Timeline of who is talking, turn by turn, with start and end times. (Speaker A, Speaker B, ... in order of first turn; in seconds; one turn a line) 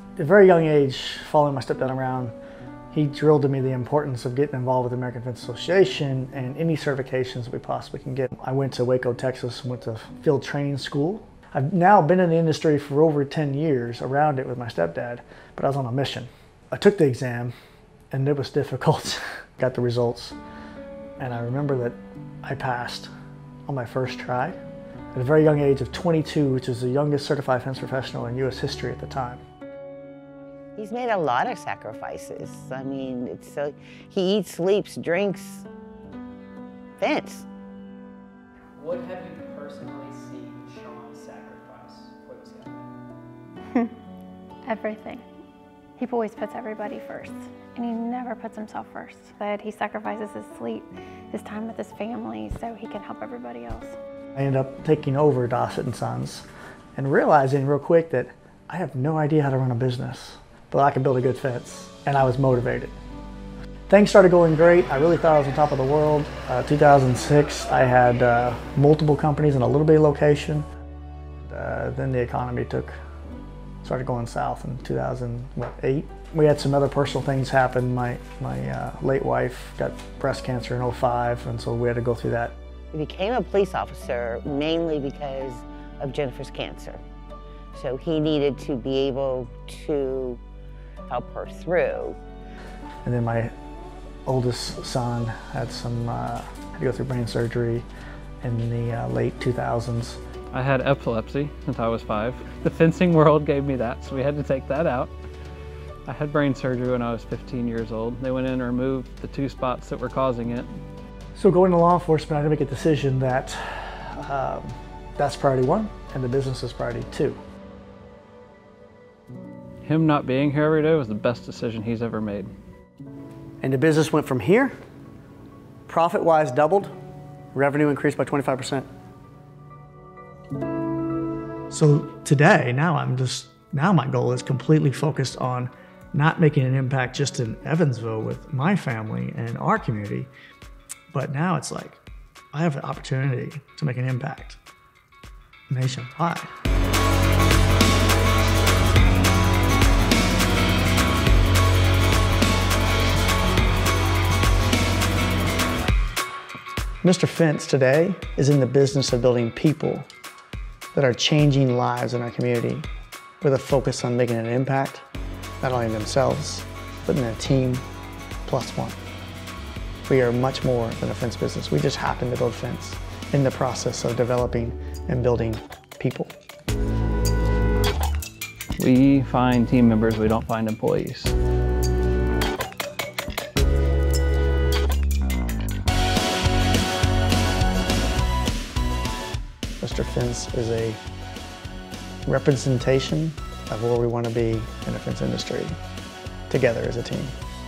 Speaker A: 0.2-2.3
Speaker A: 2.9-17.5
Speaker A: 18.1-20.4
Speaker A: 21.2-23.1
Speaker A: 23.7-24.6
Speaker A: 25.1-29.4
Speaker B: 30.8-35.6
Speaker B: 37.0-37.4
Speaker C: 38.8-42.9
Speaker D: 44.6-45.2
Speaker D: 46.0-54.0
Speaker A: 54.4-56.5
Speaker A: 57.0-62.9
Speaker A: 63.9-70.6
Speaker A: 71.4-72.9
Speaker A: 73.8-82.5
Speaker B: 82.9-87.0
Speaker B: 87.7-90.4
Speaker B: 91.1-92.2
Speaker A: 93.0-93.5
Speaker A: 94.2-97.8
Speaker A: 98.4-100.2
Speaker E: 100.5-105.1
Speaker E: 106.1-110.8
Speaker A: 111.3-117.4
Speaker E: 119.8-122.5
Speaker A: 123.6-124.7
Speaker A: 125.9-126.9
Speaker A: 127.5-128.9
Speaker A: 131.7-140.3
Speaker A: 141.1-142.0
Speaker A: 142.5-144.6
Speaker A: 145.7-146.5
Speaker A: 157.0-160.1
Speaker A: 160.9-162.9
Speaker A: 163.4-165.1
Speaker A: 165.6-167.8
Speaker A: 168.4-169.0
Speaker A: 170.1-176.3
Speaker E: 178.8-181.3
Speaker A: 189.8-191.0
Speaker A: 192.2-195.8
Speaker A: 196.5-197.3